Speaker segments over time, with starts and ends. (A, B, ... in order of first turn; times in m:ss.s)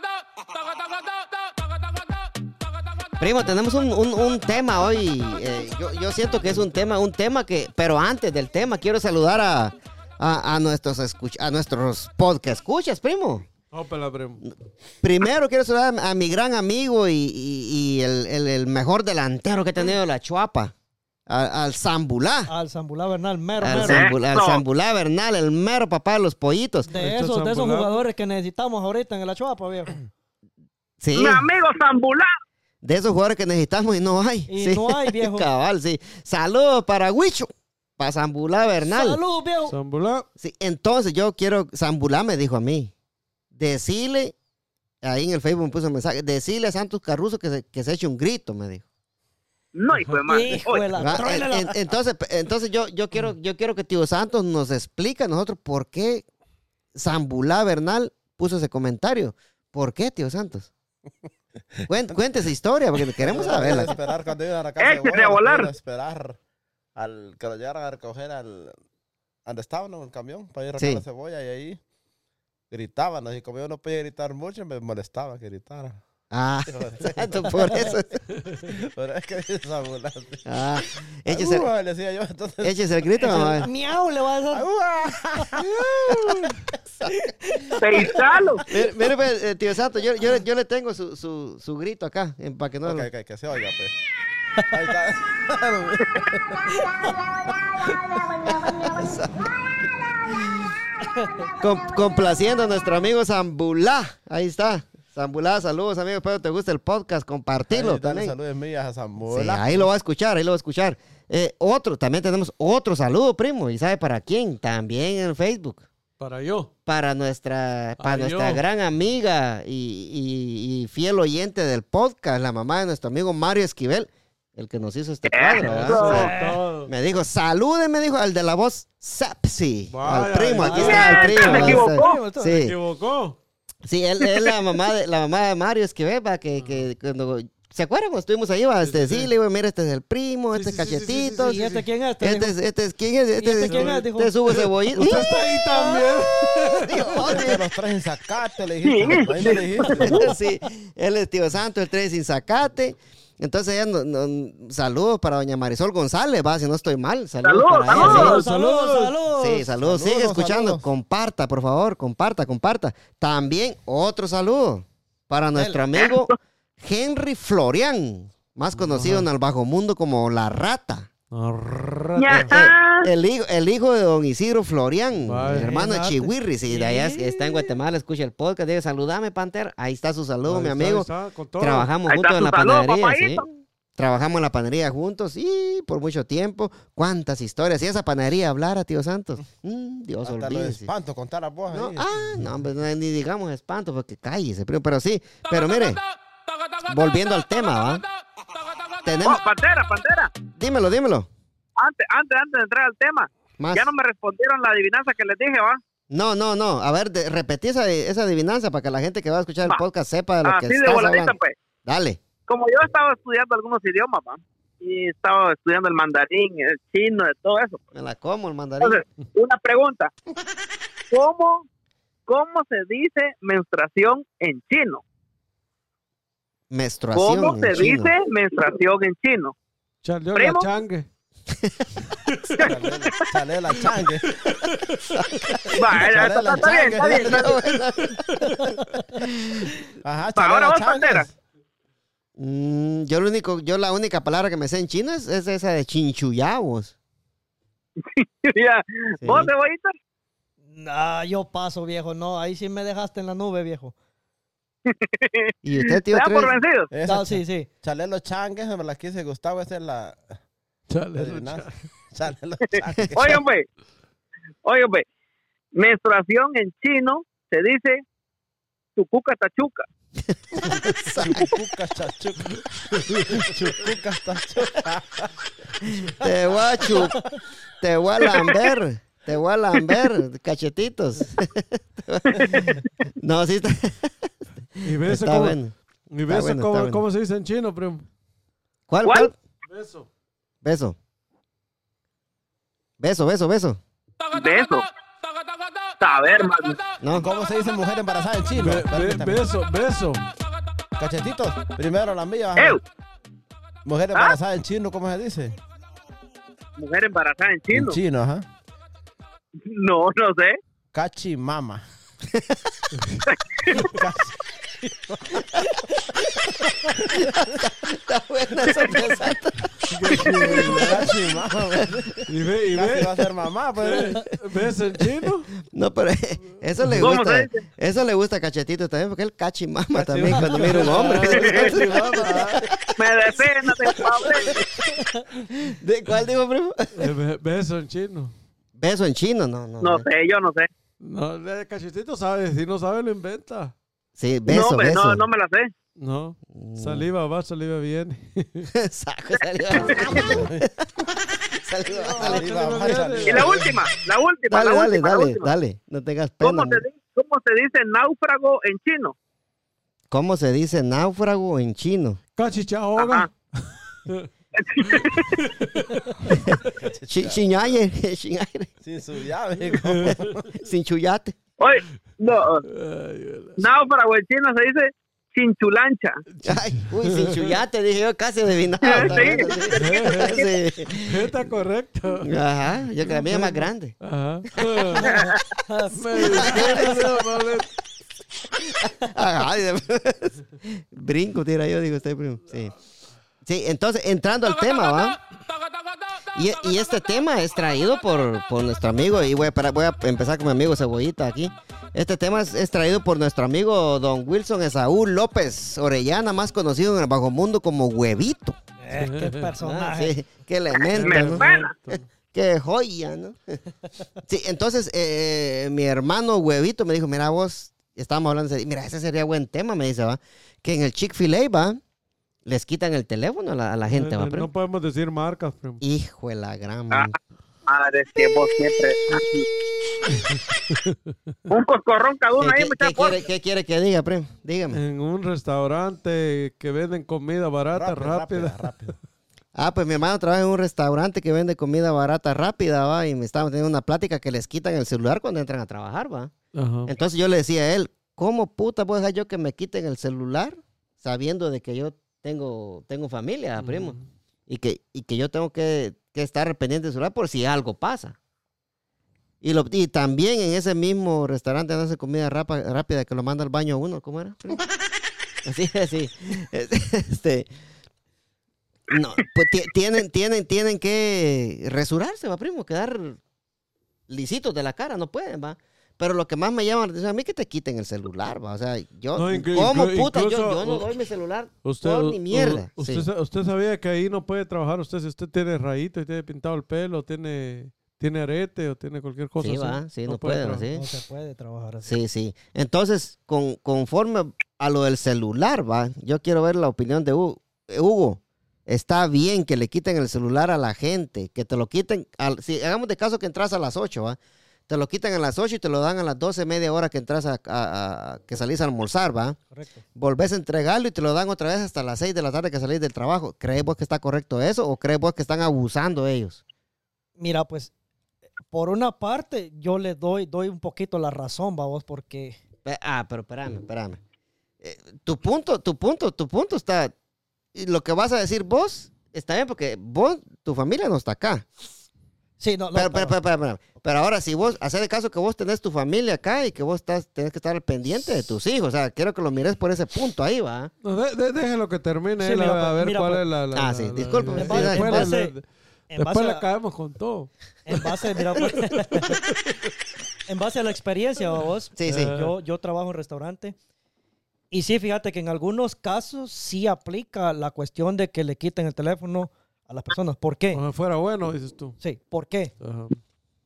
0:03.2-0:13.5 A
0:13.7-0:14.4 B
0:14.4-0:20.7 A
0:21.3-0:22.5 A
0:22.5-0:24.1 C
0:23.6-0:26.9 A
0:23.7-0:24.6 D
0:26.9-0:30.0 C
0:26.9-0:28.0 B
0:31.0-0:31.4 A
0:31.2-0:32.3 D
0:32.8-0:39.2 A
0:34.5-0:35.5 C
0:38.8-0:39.7 C
0:39.7-0:40.2 B
0:40.4-0:42.9 A
0:43.5-0:44.4 A
0:45.0-0:48.8 A
0:49.8-0:50.9 D
0:50.3-0:51.8 C
0:51.0-0:56.2 A
0:57.0-1:00.7 A
1:01.8-1:02.2 E
1:01.9-1:03.9 A
1:03.2-1:06.4 E
1:04.8-1:05.7 D
1:07.0-1:08.8 E
1:09.5-1:11.8 E
1:10.8-1:11.0 A
1:12.7-1:16.0 E
1:16.3-1:18.2 A
1:16.7-1:18.0 E
1:17.6-1:17.9 C
1:18.5-1:20.4 E
1:20.4-1:21.7 A
1:21.3-1:23.7 E
1:22.6-1:23.7 A
1:23.2-1:24.7 C
1:24.5-1:25.7 E
1:25.6-1:26.6 B
1:27.1-1:28.8 C
1:27.8-1:28.6 D
1:28.7-1:33.1 A
1:32.8-1:33.9 E
1:34.7-1:36.9 E
1:38.5-1:39.5 A
1:40.3-1:40.7 A
1:41.0-1:41.5 C
1:41.6-1:48.4 A
1:47.7-1:49.9 E
1:49.3-1:55.8 A
1:56.2-1:56.7 B
1:56.9-2:06.3 A
1:58.0-1:58.6 B
2:05.3-2:06.3 D
2:05.6-2:06.9 B
2:06.0-2:06.6 C
2:06.9-2:12.8 A
2:09.9-2:11.8 B
2:10.7-2:12.2 D
2:10.7-2:12.7 C
2:12.5-2:13.4 B
2:13.8-2:21.6 A
2:16.6-2:16.8 B
2:18.8-2:19.3 B
2:20.5-2:21.8 B
2:21.4-2:22.6 C
2:22.2-2:25.3 A
2:23.4-2:24.3 C
2:23.6-2:27.0 B
2:25.0-2:27.0 C
2:26.9-2:27.6 A
2:27.2-2:30.2 E
2:28.8-2:30.2 D
2:29.8-2:30.3 C
2:30.1-2:38.4 A
2:37.4-2:38.4 D
2:37.9-2:39.1 B
2:37.9-2:39.7 C
2:39.4-2:51.1 A
2:39.8-2:40.9 E
2:45.6-2:45.8 C
2:46.0-2:46.4 D
2:48.8-2:49.3 B
2:51.3-2:52.6 B
2:52.2-2:53.1 D
2:52.4-3:01.1 A
2:55.2-2:55.7 B
2:55.5-2:57.6 C
3:00.4-3:01.9 B
3:01.6-3:10.9 A
3:02.1-3:03.4 D
3:10.2-3:12.5 E
3:11.7-3:16.0 A
3:16.8-3:18.0 A
3:19.0-3:19.4 A
3:19.2-3:20.3 D
3:20.5-3:21.3 A
3:21.8-3:25.8 D
3:23.6-3:23.9 A
3:26.1-3:32.2 A
3:30.4-3:31.6 D
3:32.5-3:37.8 D
3:37.9-3:39.0 A
3:38.8-3:40.1 D
3:41.1-3:41.7 D
3:42.3-3:45.0 D
3:46.7-3:48.1 A
3:47.2-3:49.5 D
3:50.0-3:51.1 B
3:50.4-3:50.7 D
3:51.5-3:51.8 A
3:52.3-3:52.7 B
3:52.5-3:53.2 D
3:52.6-3:54.4 E
3:54.4-3:55.2 B
3:55.1-3:55.7 A
3:55.7-3:57.6 D
3:55.7-3:57.8 E
3:57.2-3:58.5 A
3:59.2-3:59.7 A
4:00.0-4:01.3 E
4:00.4-4:01.3 D
4:02.4-4:06.9 A
4:08.0-4:09.9 D
4:09.2-4:09.5 A
4:10.7-4:13.9 C
4:14.9-4:16.9 D
4:15.6-4:16.5 A
4:16.9-4:20.4 E
4:17.0-4:17.7 C
4:20.9-4:21.9 B
4:21.2-4:23.4 E
4:23.1-4:23.6 D
4:24.6-4:25.0 D
4:25.8-4:28.0 D
4:29.0-4:29.9 D
4:30.3-4:31.5 A
4:31.1-4:37.2 E
4:36.0-4:37.2 A
4:37.8-4:42.7 A
4:42.3-4:42.9 D
4:43.2-4:45.7 A
4:44.8-4:48.0 B
4:46.3-4:47.0 A
4:48.9-4:49.3 A
4:49.0-4:49.3 D
4:49.7-4:50.1 B
4:50.6-4:51.0 A
4:53.0-4:53.8 A
4:54.3-4:54.9 D
4:56.0-4:56.8 D
4:57.0-4:57.3 A
4:57.2-4:59.4 E
4:58.6-5:00.2 B
5:01.0-5:02.8 E
5:02.6-5:02.8 D
5:03.9-5:05.6 E
5:06.8-5:08.0 D
5:07.7-5:08.5 E
5:09.6-5:10.6 D
5:10.9-5:11.8 E
5:12.3-5:12.8 A
5:13.0-5:13.2 B
5:13.3-5:14.0 D
5:13.7-5:15.7 E
5:16.2-5:17.3 E
5:17.2-5:22.1 A
5:19.9-5:21.1 B
5:20.4-5:24.3 E
5:22.3-5:23.2 B
5:23.8-5:25.5 B
5:25.7-5:34.0 A
5:26.8-5:27.1 B
5:27.0-5:27.6 D
5:30.0-5:32.7 E
5:30.2-5:32.6 B
5:31.4-5:31.7 D
5:33.0-5:34.6 D
5:34.0-5:34.6 E
5:35.3-5:37.1 A
5:37.0-5:38.3 B
5:38.8-5:40.1 A
5:39.8-5:40.7 D
5:41.0-5:43.7 B
5:44.2-5:45.2 A
5:44.5-5:45.7 D
5:46.0-5:48.7 B
5:46.5-5:47.1 A
5:48.7-5:51.0 A
5:49.7-5:50.3 D
5:49.8-5:50.7 E
5:51.6-5:52.7 A
5:51.9-5:53.9 E
5:52.1-5:53.6 B
5:53.2-5:55.5 D
5:54.5-5:56.8 A
5:56.4-5:59.1 D
6:00.1-6:02.2 A
6:02.4-6:04.3 B
6:03.0-6:03.3 D
6:04.6-6:05.4 D
6:04.8-6:06.7 B
6:06.3-6:08.7 A
6:06.7-6:07.4 E
6:08.8-6:10.5 E
6:09.7-6:10.3 B
6:10.6-6:11.4 A
6:11.6-6:12.6 D
6:12.7-6:13.6 B
6:13.6-6:16.2 D
6:16.4-6:17.6 B
6:16.4-6:21.4 A
6:18.8-6:20.5 D
6:19.8-6:20.4 B
6:21.0-6:22.4 B
6:22.2-6:24.0 A
6:23.0-6:25.1 B
6:24.7-6:25.0 A
6:25.0-6:25.4 D
6:25.1-6:26.9 C
6:25.9-6:27.7 B
6:26.2-6:27.2 A
6:28.6-6:32.8 A
6:33.4-6:35.2 A
6:36.3-6:48.6 A
6:48.8-6:50.2 C
6:48.9-6:49.5 B
6:49.6-6:53.6 A
6:50.8-6:51.7 D
6:50.9-6:52.0 B
6:54.2-7:01.8 A
7:02.4-7:04.5 A
7:03.9-7:05.8 B
7:05.8-7:07.1 A
7:07.7-7:09.5 D
7:10.3-7:11.0 B
7:11.5-7:13.2 D
7:12.4-7:14.8 A
7:14.7-7:18.7 B
7:17.7-7:19.0 E
7:19.6-7:26.3 A
7:26.5-7:26.9 B
7:26.9-7:34.0 A
7:33.6-7:34.0 B
7:34.5-7:38.2 A
7:39.4-7:44.6 A
7:45.4-7:47.5 A
7:48.9-7:53.2 A
7:54.1-8:03.1 A
7:59.2-8:00.9 B
8:01.6-8:10.6 B
8:09.4-8:10.9 A
8:10.8-8:12.0 C
8:11.8-8:24.2 A
8:24.7-8:29.4 A
8:29.5-8:29.8 C
8:30.0-8:36.4 A
8:37.2-8:37.7 C
8:38.5-8:42.4 C
8:42.6-8:44.0 A
8:44.6-8:46.9 A
8:47.6-8:51.5 A
8:52.4-8:53.2 C
8:52.8-9:00.7 A
9:00.8-9:09.4 B
9:02.2-9:03.2 C
9:03.5-9:05.1 A
9:04.3-9:05.3 C
9:05.9-9:06.4 C
9:07.7-9:09.2 C
9:10.3-9:13.6 C
9:11.8-9:12.1 A
9:11.8-9:12.3 B
9:14.5-9:20.6 C
9:20.5-9:21.8 B
9:21.8-9:22.5 C
9:22.6-9:23.0 B